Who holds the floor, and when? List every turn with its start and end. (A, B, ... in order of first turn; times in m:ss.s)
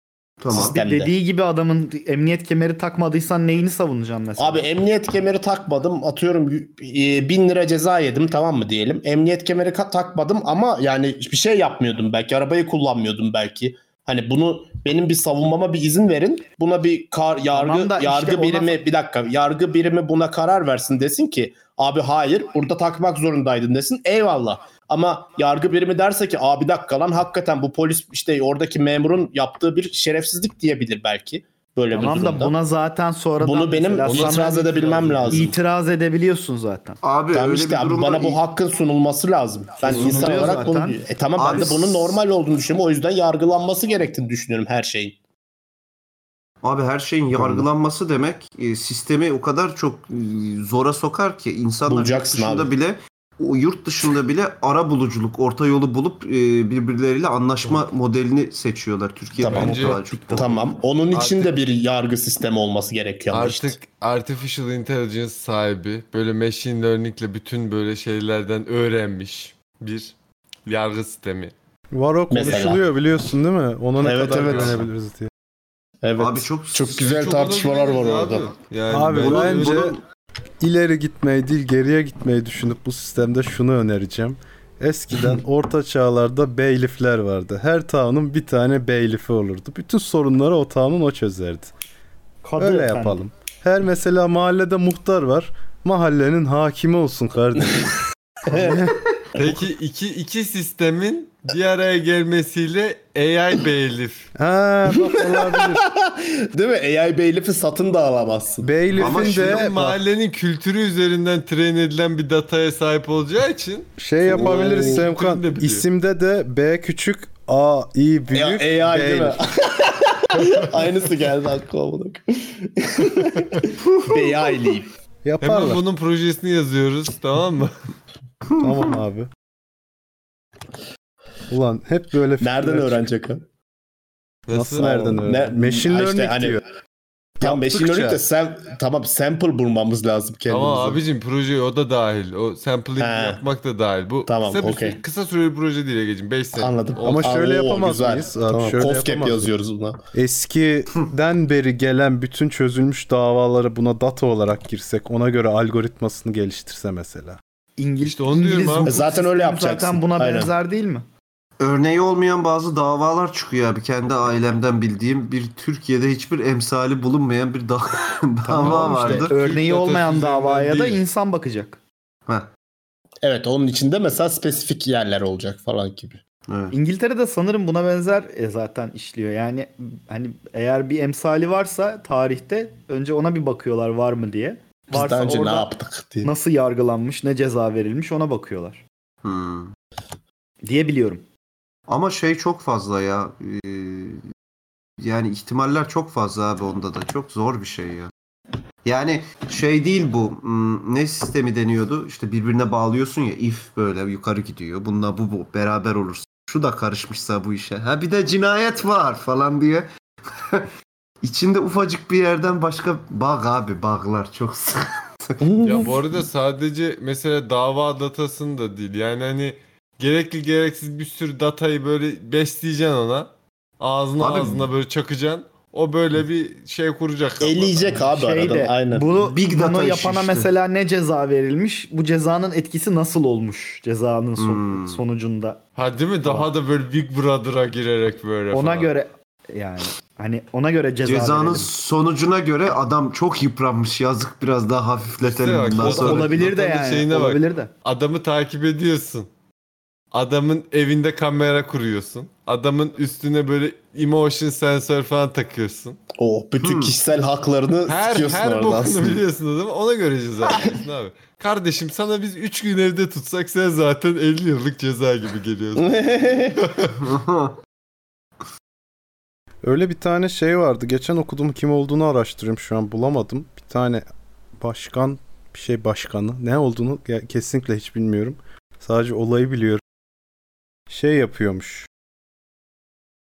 0:00.4-0:00.8 A
0:00.5-0:01.1 B
0:00.5-0:04.7 C
0:04.4-0:32.5 B
0:17.5-0:18.8 C
0:31.9-0:34.7 C
0:33.4-0:35.5 B
0:34.0-0:35.5 D
0:35.3-0:37.0 C
0:37.0-0:38.4 A
0:37.3-0:45.2 B
0:39.8-0:41.0 C
0:39.9-0:40.6 A
0:41.4-0:42.2 A
0:46.6-1:00.4 A
0:47.3-0:47.7 B
0:51.9-0:52.7 B
0:59.4-1:03.8 B
0:59.4-1:00.0 D
0:59.7-1:00.6 C
1:01.1-1:01.6 D
1:03.3-1:10.1 D
1:10.7-1:11.5 D
1:11.9-1:15.3 E
1:12.3-1:12.8 B
1:14.0-1:14.8 B
1:14.2-1:14.8 D
1:16.0-1:18.5 B
1:16.2-1:17.0 A
1:16.9-1:19.8 D
1:18.9-1:19.9 E
1:19.2-1:20.0 A
1:20.6-1:31.7 E
1:32.4-1:33.2 C
1:32.6-1:37.9 E
1:38.5-1:38.9 B
1:38.5-1:38.9 E
1:39.4-1:44.3 D
1:44.4-1:45.8 E
1:45.2-1:49.1 B
1:48.6-1:50.0 E
1:49.0-1:49.7 A
1:49.0-1:55.8 D
1:54.0-1:59.4 E
1:54.3-1:55.0 B
1:58.3-2:04.9 B
2:05.2-2:05.8 E
2:05.4-2:07.7 D
2:08.5-2:08.9 A
2:08.6-2:09.3 E
2:11.5-2:13.1 E
2:12.4-2:13.4 B
2:14.5-2:14.8 D
2:14.5-2:16.6 E
2:14.8-2:16.6 B
2:17.4-2:18.2 E
2:17.4-2:21.0 B
2:20.5-2:27.3 D
2:23.0-2:23.4 B
2:24.2-2:25.0 B
2:26.6-2:30.0 B
2:27.0-2:29.5 E
2:30.1-2:37.4 E
2:37.8-2:41.1 C
2:38.0-2:38.9 D
2:38.8-2:40.5 B
2:41.6-2:49.3 A
2:48.4-2:51.8 C
2:48.6-2:51.0 D
2:53.2-2:56.2 B
2:56.5-2:56.7 A
2:56.7-3:05.7 C
3:04.9-3:06.3 B
3:06.2-3:08.8 C
3:09.2-3:09.7 A
3:10.6-3:11.2 C
3:11.9-3:14.2 A
3:15.0-3:18.1 A
3:18.8-3:30.7 A
3:31.2-3:35.4 A
3:35.4-3:35.9 B
3:35.6-3:43.3 D
3:43.8-3:48.0 D
3:44.2-3:44.7 A
3:47.4-3:49.2 B
3:47.9-3:55.6 C
3:49.2-3:50.5 A
3:54.4-3:55.0 A
3:55.8-3:58.9 D
3:58.5-4:01.7 C
4:01.0-4:06.3 A
4:05.2-4:09.3 D
4:05.8-4:07.7 C
4:10.1-4:16.0 D
4:16.2-4:19.2 B
4:16.6-4:16.9 A
4:17.9-4:27.0 D
4:25.8-4:26.6 B
4:27.0-4:27.6 A
4:29.6-4:34.0 E
4:34.6-4:39.8 E
4:40.9-4:41.9 E